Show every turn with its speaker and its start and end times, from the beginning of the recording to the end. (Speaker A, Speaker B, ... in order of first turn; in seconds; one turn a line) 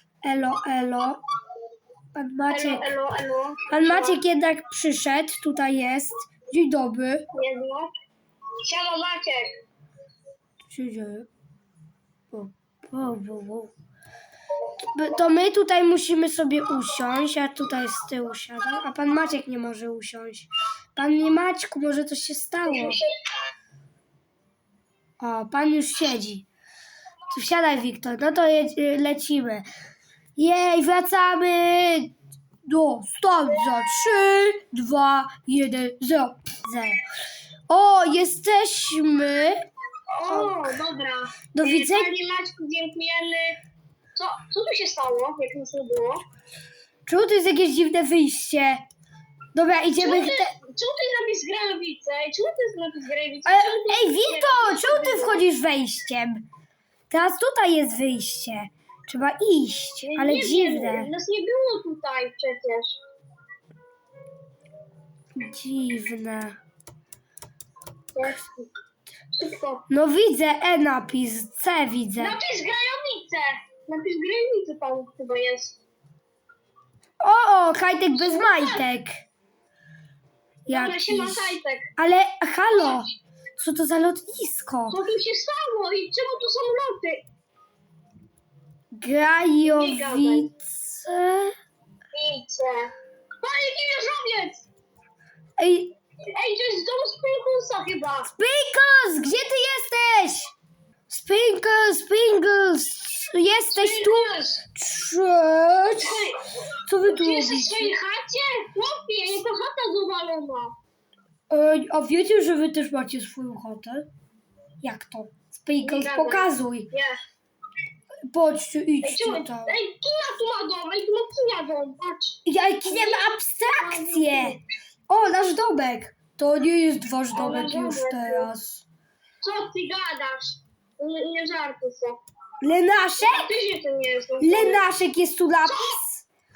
Speaker A: 0.2-1.2
Speaker A: 2.1-2.9
Speaker B: 2.5-4.2
Speaker A: 3.7-7.2
Speaker B: 7.3-7.9
Speaker B: 8.6-9.5
Speaker A: 10.7-11.3
Speaker A: 12.3-13.7
Speaker A: 14.9-23.0
Speaker B: 22.7-23.1
Speaker A: 25.2-26.5
Speaker A: 27.3-29.6
Speaker A: 30.4-32.1
Speaker A: 32.6-37.0
Speaker A: 37.7-39.6
Speaker B: 40.1-43.6
Speaker A: 40.3-40.7
Speaker A: 41.5-42.1
Speaker B: 44.1-46.2
Speaker A: 47.0-48.8
Speaker A: 49.5-50.5
Speaker B: 50.0-55.4
Speaker A: 53.5-56.4
Speaker A: 57.1-61.1
Speaker B: 60.0-63.0
Speaker A: 65.3-66.6
Speaker B: 68.1-68.7
Speaker B: 69.3-69.9
Speaker A: 69.9-72.3
Speaker B: 72.2-75.8
Speaker A: 77.2-79.2
Speaker B: 78.1-78.9
Speaker B: 80.7-81.9
Speaker A: 80.7-85.0
Speaker B: 84.9-87.2
Speaker A: 88.9-91.5
Speaker B: 89.6-90.5
Speaker B: 92.1-94.6
Speaker A: 95.6-95.9
Speaker B: 96.3-98.3
Speaker A: 98.2-100.5
Speaker A: 101.1-107.9
Speaker B: 103.5-104.6
Speaker B: 106.0-106.5
Speaker B: 107.0-110.7
Speaker A: 111.5-114.1
Speaker A: 114.8-116.9
Speaker B: 115.8-117.2
Speaker A: 118.3-119.7
Speaker B: 119.0-124.6
Speaker A: 122.5-128.8
Speaker B: 127.3-128.5
Speaker B: 129.4-132.2
Speaker A: 132.6-133.5
Speaker B: 133.2-134.8
Speaker A: 134.4-136.2
Speaker B: 135.6-136.0